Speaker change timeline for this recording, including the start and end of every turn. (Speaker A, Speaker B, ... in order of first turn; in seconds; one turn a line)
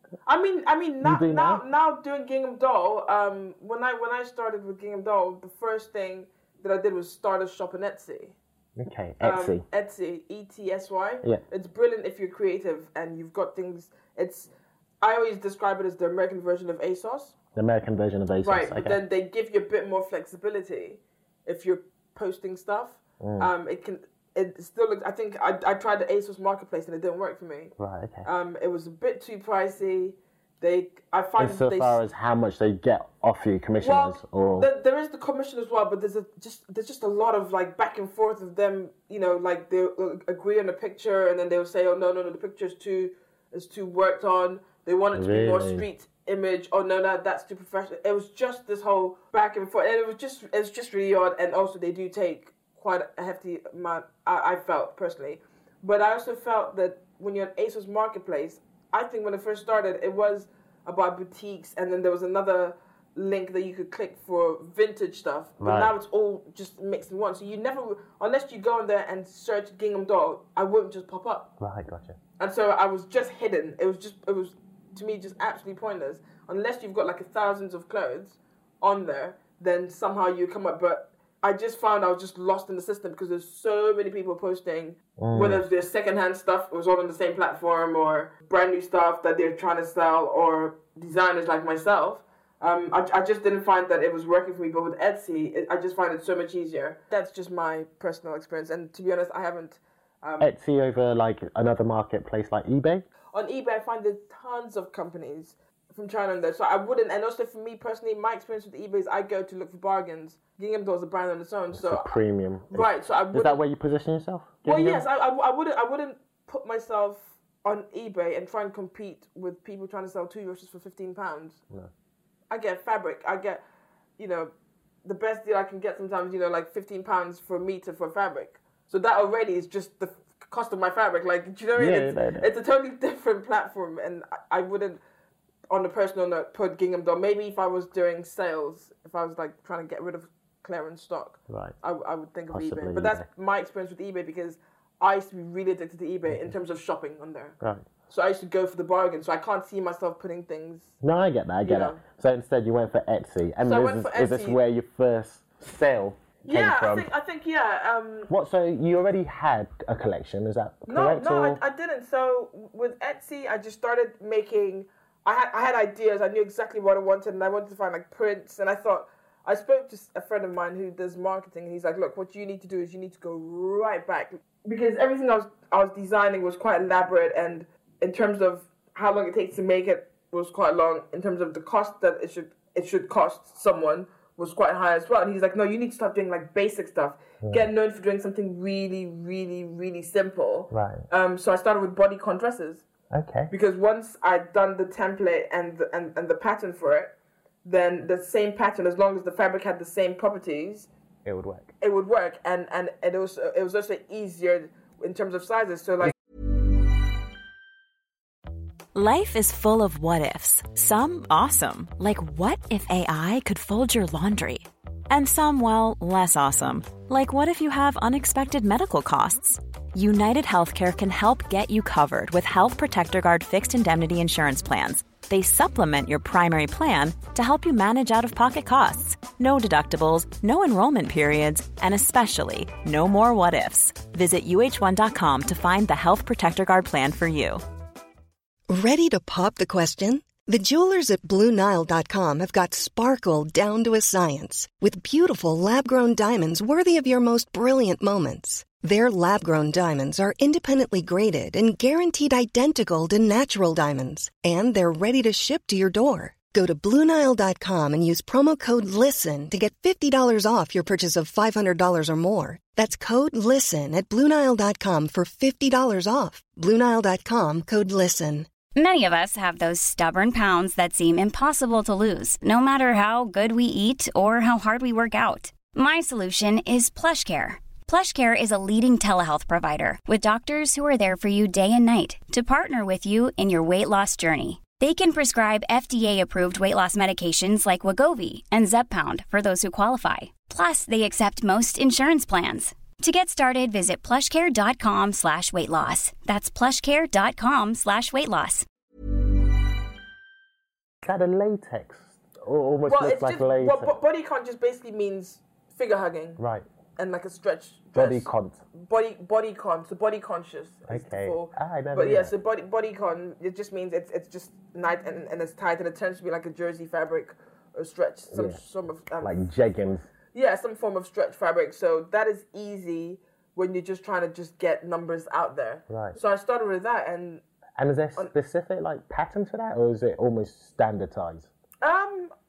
Speaker A: 0.2-8.4
Speaker B: 1.0-1.6
Speaker B: 8.8-9.6
Speaker A: 9.2-14.5
Speaker A: 15.0-17.3
Speaker B: 17.5-19.0
Speaker A: 18.4-32.0
Speaker B: 23.2-23.5
Speaker B: 27.8-28.3
Speaker B: 31.4-34.7
Speaker A: 33.8-71.5
Speaker B: 45.1-45.9
Speaker B: 65.6-65.9
Speaker B: 71.6-72.2
Speaker A: 72.4-100.5
Speaker B: 85.2-85.7
Speaker B: 100.4-103.0
Speaker A: 103.3-112.1
Speaker B: 111.7-115.0
Speaker A: 112.7-113.6
Speaker A: 114.6-121.6
Speaker A: 122.5-123.6
Speaker A: 124.2-124.5
Speaker A: 125.0-135.0
Speaker B: 131.7-132.5
Speaker A: 135.7-147.6
Speaker B: 141.5-141.7
Speaker B: 142.5-143.3
Speaker B: 146.3-146.5
Speaker B: 147.6-147.8
Speaker A: 148.1-150.9
Speaker B: 151.0-157.1
Speaker A: 151.6-152.0
Speaker A: 153.6-154.6
Speaker A: 156.5-158.3
Speaker B: 158.3-161.6
Speaker A: 160.9-192.8
Speaker B: 187.4-187.7
Speaker B: 190.7-191.0
Speaker B: 193.1-193.5
Speaker A: 193.5-197.1
Speaker A: 197.6-200.9
Speaker B: 201.2-201.7
Speaker A: 201.8-206.1
Speaker C: 208.9-237.6
Speaker D: 238.7-268.5
Speaker E: 268.7-298.6
Speaker B: 301.0-303.9
Speaker A: 302.9-306.4
Speaker B: 306.4-306.6
Speaker A: 307.0-319.4
Speaker B: 307.9-308.6
Speaker B: 310.9-312.3
Speaker B: 318.3-318.6
Speaker B: 319.2-320.1
Speaker A: 320.3-327.4
Speaker B: 325.9-326.2
Speaker B: 327.8-331.5
Speaker A: 331.8-332.3